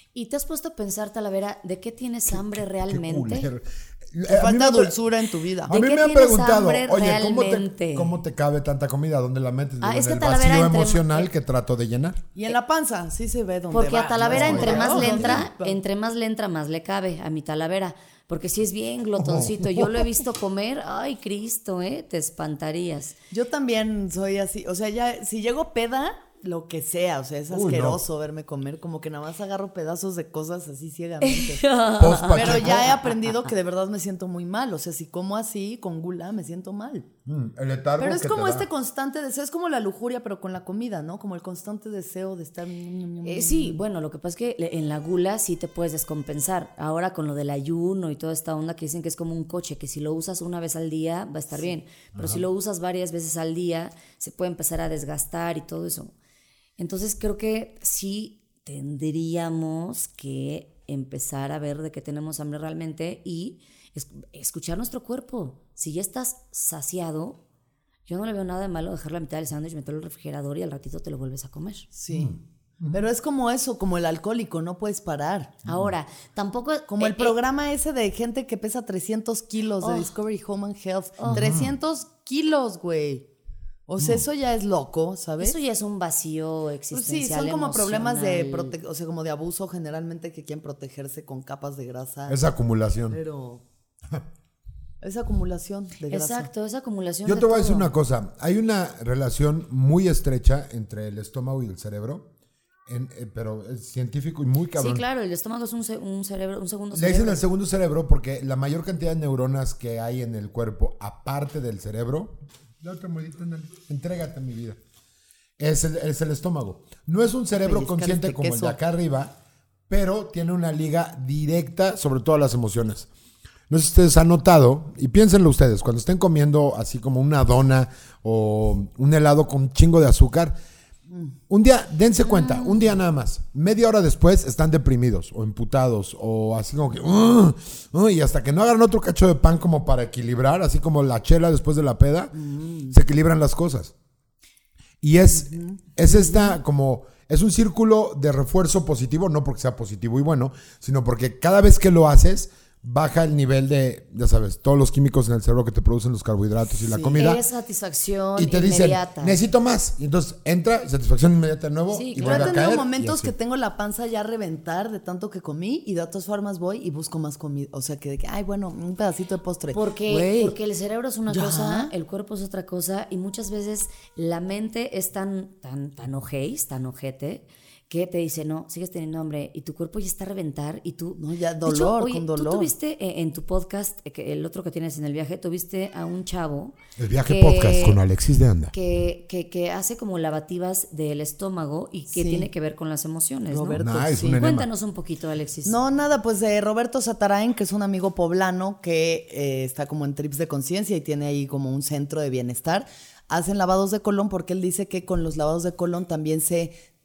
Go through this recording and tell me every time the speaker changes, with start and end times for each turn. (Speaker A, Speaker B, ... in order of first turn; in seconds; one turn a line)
Speaker A: 0.1-3.5
Speaker B: 2.3-5.0
Speaker C: 4.3-5.7
Speaker B: 5.7-12.2
Speaker A: 5.7-8.1
Speaker A: 9.8-11.3
Speaker C: 12.3-15.8
Speaker A: 13.7-23.2
Speaker B: 14.2-15.5
Speaker B: 19.2-20.1
Speaker C: 23.3-31.7
Speaker B: 27.5-28.0
Speaker A: 31.2-33.3
Speaker B: 32.0-33.0
Speaker C: 32.3-37.1
Speaker B: 37.3-38.7
Speaker C: 38.0-43.8
Speaker A: 43.2-56.1
Speaker B: 52.1-52.5
Speaker A: 56.8-67.4
Speaker A: 68.1-71.9
Speaker C: 71.9-72.3
Speaker B: 72.1-73.0
Speaker C: 72.9-75.6
Speaker A: 75.7-77.3
Speaker B: 75.7-75.9
Speaker C: 76.9-83.3
Speaker A: 79.8-80.1
Speaker A: 81.2-81.5
Speaker B: 81.3-81.7
Speaker C: 83.9-85.6
Speaker A: 85.4-88.8
Speaker C: 86.9-92.4
Speaker B: 92.3-93.2
Speaker C: 93.1-93.6
Speaker C: 95.0-96.5
Speaker A: 96.1-97.9
Speaker B: 97.2-102.3
Speaker B: 102.9-105.0
Speaker A: 104.8-107.5
Speaker B: 106.9-114.8
Speaker B: 115.6-119.3
Speaker C: 117.5-118.8
Speaker B: 119.9-123.1
Speaker B: 123.7-130.6
Speaker B: 131.5-142.4
Speaker A: 132.3-132.9
Speaker C: 142.4-142.9
Speaker B: 142.9-143.9
Speaker B: 145.0-157.4
Speaker C: 145.3-146.5
Speaker C: 156.8-157.2
Speaker A: 157.2-159.4
Speaker B: 158.4-163.3
Speaker A: 161.9-162.6
Speaker C: 162.2-170.6
Speaker A: 169.7-188.0
Speaker C: 171.3-171.9
Speaker C: 181.2-182.7
Speaker B: 187.0-188.7
Speaker A: 188.7-195.8
Speaker C: 192.1-192.5
Speaker C: 193.5-194.4
Speaker B: 193.8-194.7
Speaker C: 195.7-206.7